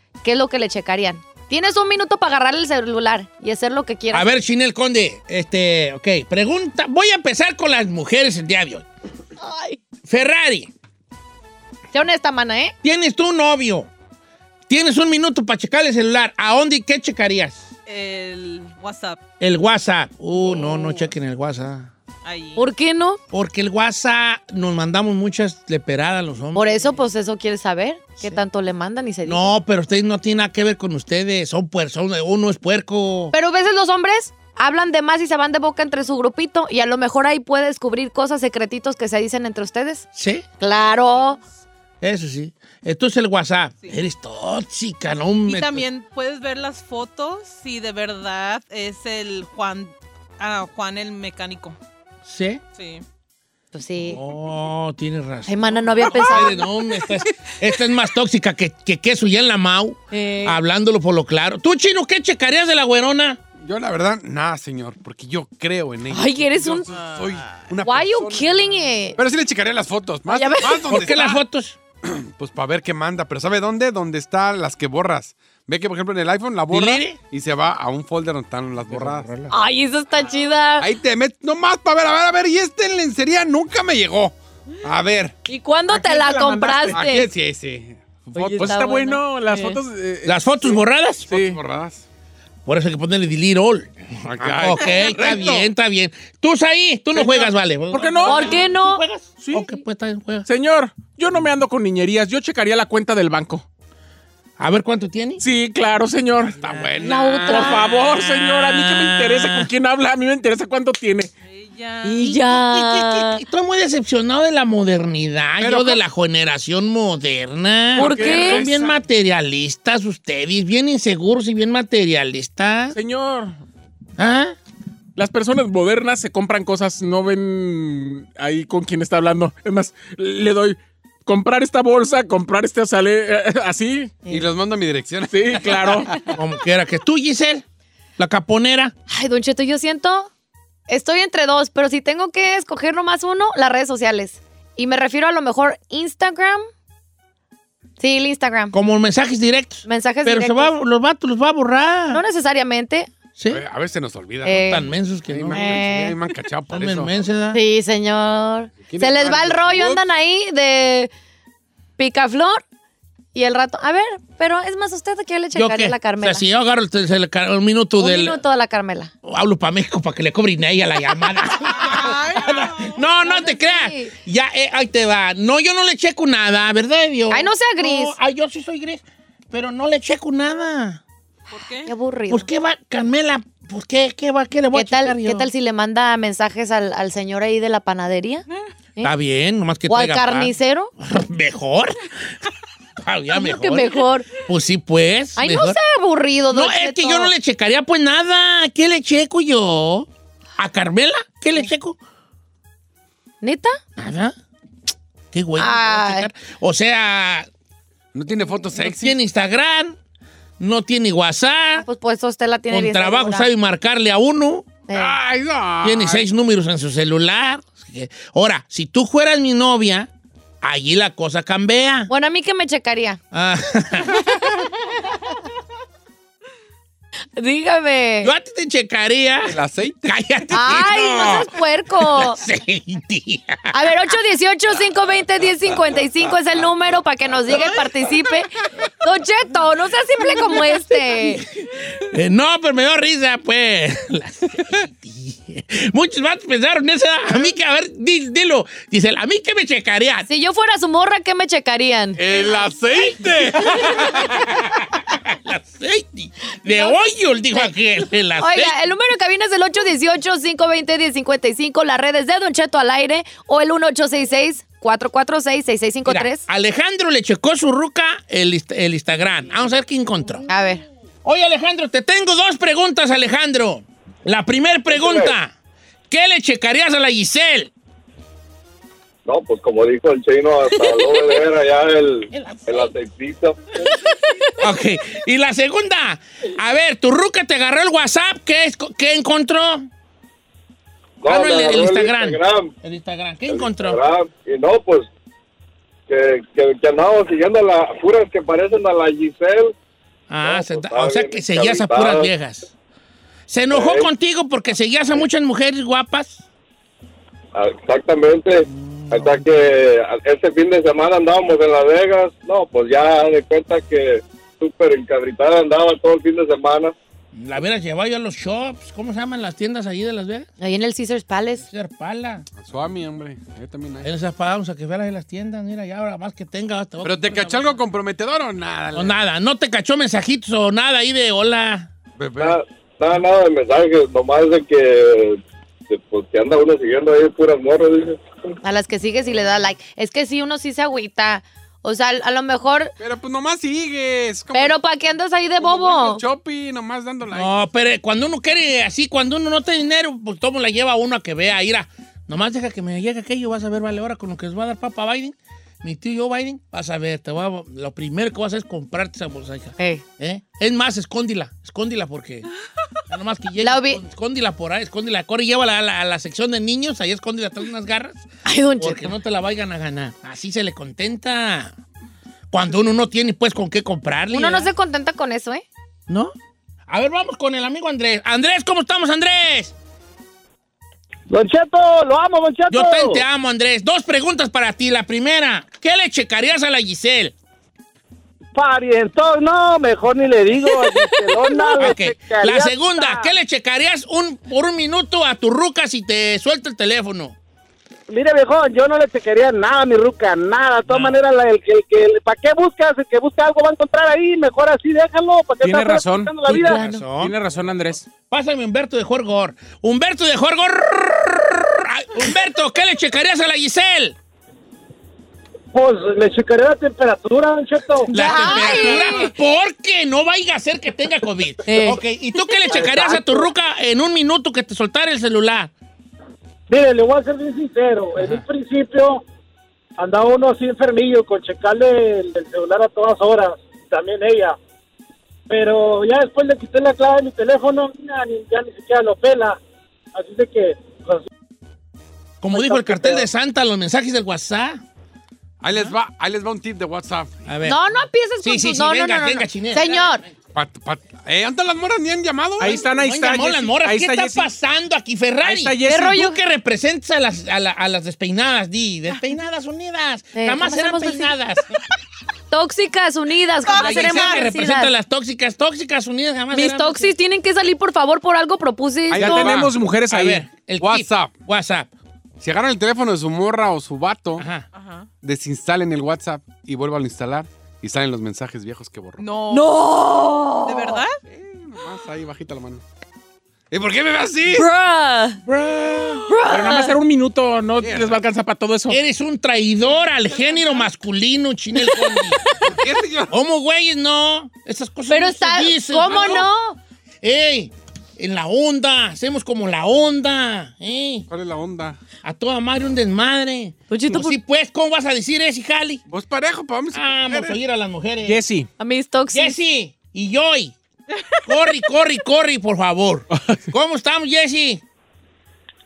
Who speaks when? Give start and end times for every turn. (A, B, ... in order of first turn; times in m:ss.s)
0:00.2-0:04.3 A
0:04.1-0:08.8 B
0:09.4-0:09.8 A
0:10.1-0:10.7 B
0:11.9-0:12.7 A
0:12.8-0:13.9 B
0:14.7-0:17.7 B
0:17.9-0:19.2 C
0:19.4-0:21.9 B
0:22.2-0:22.6 C
0:22.6-0:23.2 A
0:23.3-0:26.9 B
0:26.5-0:29.5 A
0:29.2-0:33.3 B
0:33.3-0:40.0 A
0:40.1-0:40.4 B
0:40.6-0:41.4 A
0:42.0-0:45.8 B
0:45.5-0:51.8 C
0:52.2-0:52.6 B
0:52.7-0:53.0 C
0:53.7-0:54.2 A
0:54.0-1:03.4 B
0:55.4-0:56.6 A
0:56.1-0:57.2 C
1:00.1-1:00.6 A
1:03.5-1:08.6 D
1:06.1-1:06.9 A
1:06.9-1:07.7 C
1:07.8-1:09.2 A
1:09.2-1:11.4 D
1:10.3-1:11.0 A
1:10.9-1:11.8 B
1:12.0-1:19.3 D
1:16.7-1:17.2 B
1:18.9-1:19.5 B
1:19.5-1:20.9 A
1:20.8-1:25.4 D
1:25.4-1:27.3 A
1:25.9-1:27.0 E
1:26.3-1:28.8 D
1:28.3-1:29.8 A
1:28.6-1:31.6 E
1:30.2-1:31.3 B
1:31.3-1:32.0 D
1:32.6-1:40.5 B
1:34.2-1:35.7 D
1:37.1-1:38.6 E
1:38.2-1:39.0 A
1:39.4-1:39.7 E
1:40.4-1:43.6 E
1:44.6-1:45.4 B
1:45.4-1:46.6 E
1:46.6-1:47.7 D
1:47.0-1:47.8 A
1:47.4-1:51.3 E
1:47.5-1:49.7 B
1:51.4-1:52.2 C
1:52.0-1:53.4 A
1:52.2-2:03.0 B
1:55.6-1:56.0 D
1:57.9-1:58.6 E
1:58.0-1:58.6 A
1:58.1-1:58.9 D
2:02.9-2:03.6 E
2:04.2-2:04.6 B
2:05.2-2:14.2 E
2:14.3-2:16.3 D
2:15.3-2:16.1 E
2:16.3-2:17.6 B
2:18.2-2:18.9 B
2:19.1-2:20.3 A
2:20.9-2:26.7 A
2:28.0-2:28.7 A
2:28.7-2:32.2 B
2:29.8-2:30.7 A
2:32.1-2:33.1 A
2:33.4-2:33.6 B
2:33.5-2:34.7 D
2:34.4-2:34.8 A
2:34.6-2:35.8 B
2:35.3-2:37.2 D
2:35.5-2:36.2 A
2:36.7-2:37.6 B
2:37.5-2:41.1 A
2:38.8-2:40.0 D
2:42.0-2:42.6 A
2:43.3-2:46.4 A
2:45.5-2:48.4 B
2:48.0-2:49.1 A
2:49.2-3:01.0 B
2:51.4-2:52.2 A
2:51.6-2:53.0 C
2:53.2-2:54.1 A
2:57.3-2:58.2 A
3:01.5-3:01.9 C
3:01.8-3:02.5 A
3:02.3-3:05.5 B
3:04.7-3:08.4 A
3:09.0-3:12.1 B
3:09.9-3:10.9 A
3:13.0-3:15.8 B
3:13.3-3:14.3 A
3:15.4-3:17.3 A
3:16.5-3:22.0 B
3:23.4-3:23.8 A
3:24.0-3:24.4 B
3:25.3-3:27.5 B
3:25.6-3:26.3 A
3:28.1-3:29.2 D
3:28.7-3:30.0 B
3:30.6-3:31.8 B
3:31.8-3:33.5 A
3:32.7-3:34.8 B
3:34.9-3:35.2 A
3:34.9-3:36.2 D
3:35.8-3:40.1 B
3:40.6-3:42.1 B
3:42.1-3:43.2 A
3:43.3-3:44.3 B
3:47.4-3:48.3 A
3:48.2-3:53.8 B
3:49.4-3:50.2 D
3:50.5-3:52.4 A
3:53.7-4:01.4 A
4:02.0-4:10.3 B
4:10.3-4:12.2 A
4:12.2-4:14.4 D
4:12.3-4:18.7 B
4:16.7-4:17.0 A
4:18.4-4:26.4 A
4:26.0-4:30.4 B
4:30.5-4:30.8 A
4:31.2-4:35.5 B
4:34.9-4:35.3 F
4:36.1-4:37.7 B
4:39.2-4:44.1 F
4:42.3-4:42.9 B
4:44.6-4:49.9 B
4:51.2-4:52.7 F
4:51.2-4:54.0 B
4:53.5-4:55.1 F
4:56.1-4:59.7 F
5:00.3-5:02.7 B
5:00.4-5:02.3 F
5:03.5-5:06.4 B
5:03.7-5:04.1 F
5:07.5-5:16.9 F
5:08.6-5:09.8 B
5:17.3-5:20.5 B
5:20.6-5:21.6 A
5:21.6-5:22.5 B
5:22.6-5:24.1 D
5:24.0-5:27.8 B
5:27.0-5:29.1 D
5:28.9-5:31.9 B
5:32.2-5:32.6 D
5:32.4-5:38.5 F
5:38.6-5:42.9 A
5:43.0-5:44.8 D
5:44.5-5:46.2 A
5:45.6-5:47.5 D
5:47.3-6:02.5 B
5:59.8-6:00.0 A
6:03.1-6:08.3 B
6:03.6-6:04.0 A
6:08.4-6:09.1 A
6:08.8-6:11.8 B
6:12.5-6:14.7 B
6:14.3-6:15.6 A
6:16.1-6:16.3 B
6:16.9-6:19.7 B
6:21.3-6:23.2 G
6:22.7-6:27.3 B
6:28.5-6:33.3 G
6:31.8-6:37.3 B
6:38.1-6:46.8 G
6:40.9-6:41.1 E
6:45.6-6:46.6 E
6:46.4-6:47.0 A
6:46.7-6:47.3 B
6:47.2-6:48.1 E
6:48.3-6:54.2 B
6:55.7-6:58.1 G
6:58.1-6:59.3 A
6:58.1-7:05.7 B
6:58.5-6:59.0 C
7:01.7-7:02.0 A
7:02.7-7:03.1 F
7:02.9-7:03.4 G
7:06.7-7:09.2 G
7:08.2-7:08.4 B
7:10.0-7:14.6 G
7:15.5-7:19.6 G
7:20.1-7:21.3 G
7:22.4-7:24.8 B
7:22.5-7:23.3 G
7:25.6-7:27.5 D
7:27.5-7:27.8 B
7:27.6-7:30.2 A
7:28.4-7:30.3 B
7:30.5-7:32.8 D
7:32.6-7:34.5 E
7:32.7-7:41.7 B
7:35.4-7:36.2 E
7:35.8-7:36.3 A
7:40.3-7:41.3 A
7:42.5-7:44.9 A
7:43.6-7:44.4 C
7:43.8-7:47.1 B
7:46.5-7:49.5 A
7:49.1-7:49.7 D
7:49.1-7:50.4 E
7:50.1-7:51.9 B
7:50.8-7:51.4 D
7:52.4-7:54.4 D
7:54.4-7:54.6 B
7:54.7-7:55.1 C
7:55.2-7:59.3 D
7:59.2-7:59.7 C
7:59.5-8:01.0 A
8:00.6-8:01.2 C
8:01.3-8:02.8 D
8:03.7-8:04.7 D
8:04.5-8:05.4 A
8:05.5-8:06.2 D
8:06.3-8:06.9 A
8:06.4-8:09.0 E
8:07.8-8:08.2 D
8:08.9-8:12.4 B
8:10.4-8:10.8 C
8:12.6-8:13.3 D
8:13.3-8:16.5 B
8:15.1-8:16.8 A
8:16.0-8:16.5 D
8:17.2-8:21.3 B
8:21.3-8:22.0 D
8:22.2-8:26.0 B
8:23.9-8:24.4 A
8:26.1-8:27.6 D
8:26.9-8:28.4 B
8:28.2-8:28.7 E
8:28.8-8:29.5 A
8:29.3-8:30.7 B
8:31.4-8:34.8 B